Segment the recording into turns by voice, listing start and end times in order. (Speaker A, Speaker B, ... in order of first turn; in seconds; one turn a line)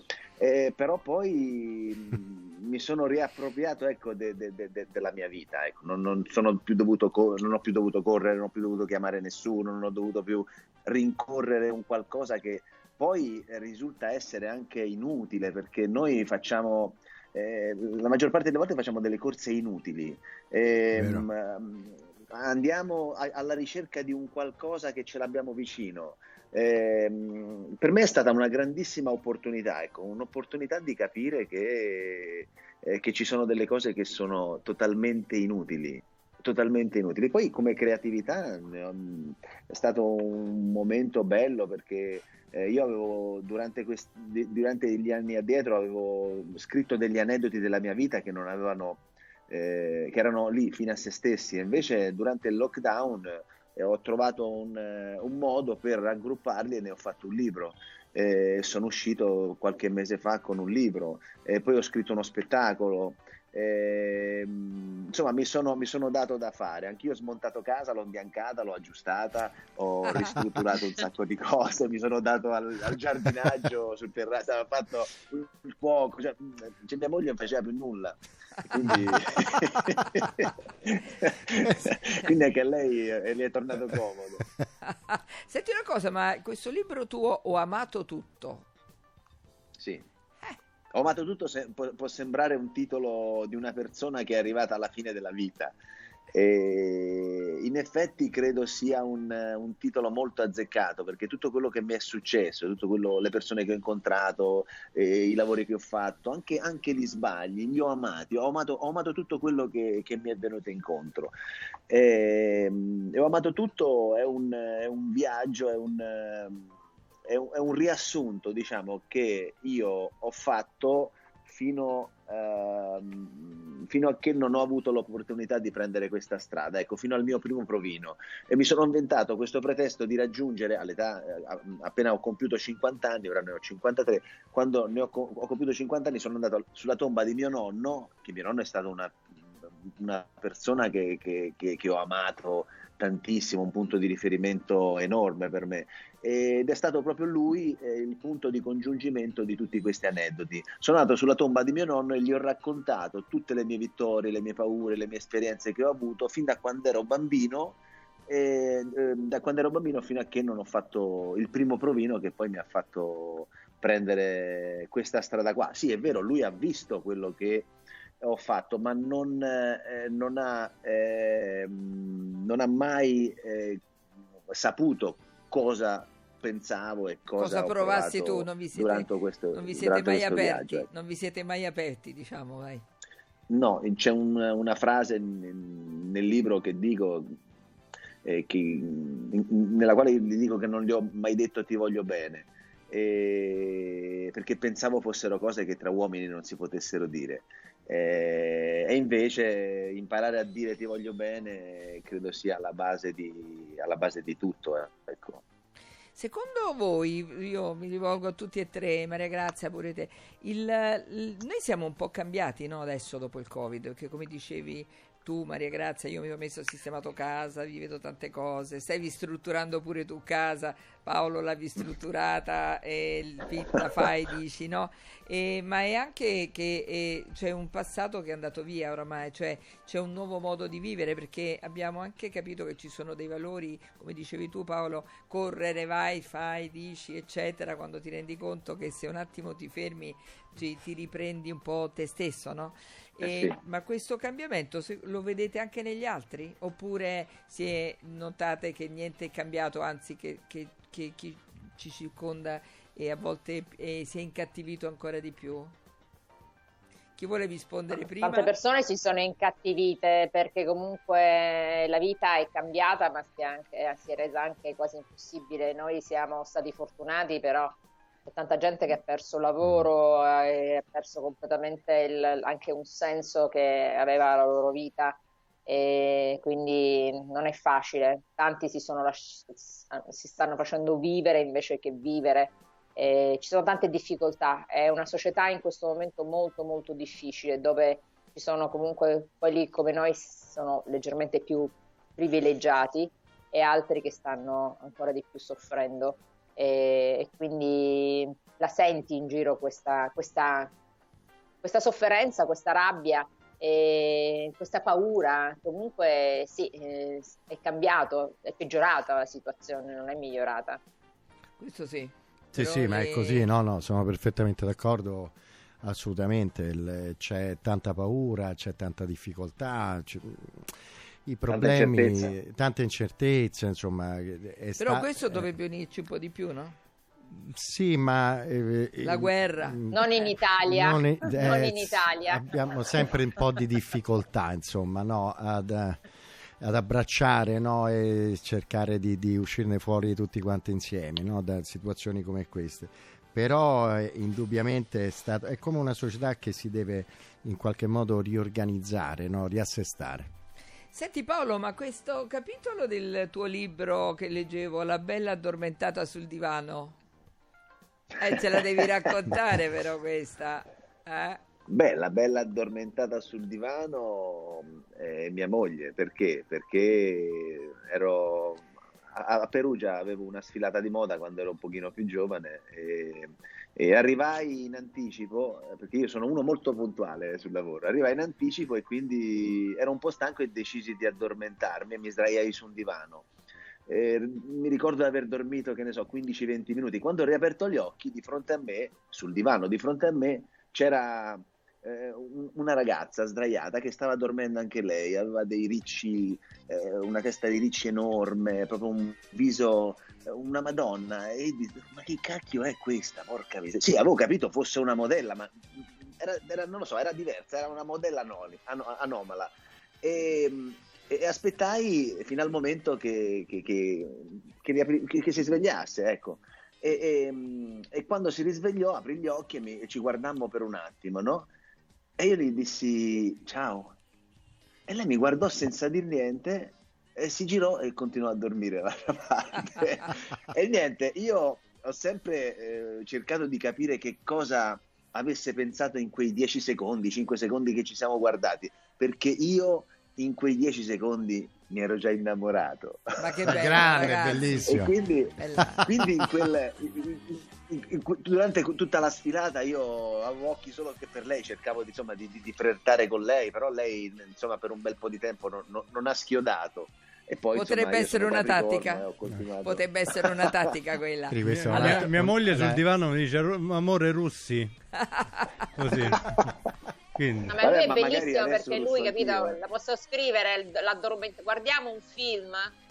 Speaker A: 0.4-78.2
Speaker B: 20.9-21.3
Speaker A: 78.7-84.4
Speaker C: 84.8-88.7
Speaker A: 89.8-90.0
Speaker A: 90.9-95.7
Speaker A: 96.3-111.3
Speaker A: 111.9-116.7
Speaker A: 117.3-139.2
Speaker A: 140.0-167.7
Speaker A: 168.2-173.8
Speaker A: 174.5-180.9
Speaker C: 177.4-182.8
Speaker A: 183.5-187.3
Speaker A: 188.2-205.4
Speaker C: 206.1-255.8
Speaker A: 243.2-243.6
Speaker C: 257.2-258.5
Speaker D: 258.2-300.7
Speaker D: 301.6-310.8
Speaker C: 311.6-313.4
Speaker B: 312.5-320.7
Speaker B: 321.2-325.5
Speaker A: 321.5-322.3
Speaker C: 324.8-326.8
Speaker B: 327.3-330.0
Speaker C: 329.0-330.2
Speaker D: 329.9-332.6
Speaker B: 330.6-336.0
Speaker B: 336.6-350.3
Speaker C: 350.9-357.0
Speaker C: 358.2-361.4
Speaker A: 361.7-383.3
Speaker A: 383.9-405.6
Speaker A: 406.2-421.5
Speaker A: 422.2-423.9
Speaker A: 424.9-443.8
Speaker C: 443.2-444.8
Speaker B: 443.4-444.9
Speaker A: 444.7-460.2
Speaker C: 445.4-445.9
Speaker B: 445.8-446.2
Speaker C: 457.5-459.1
Speaker C: 459.6-462.0
Speaker B: 461.3-462.8
Speaker E: 461.4-464.7
Speaker C: 465.0-465.5
Speaker E: 465.8-466.4
Speaker E: 467.1-467.5
Speaker D: 467.5-472.7
Speaker A: 467.6-469.6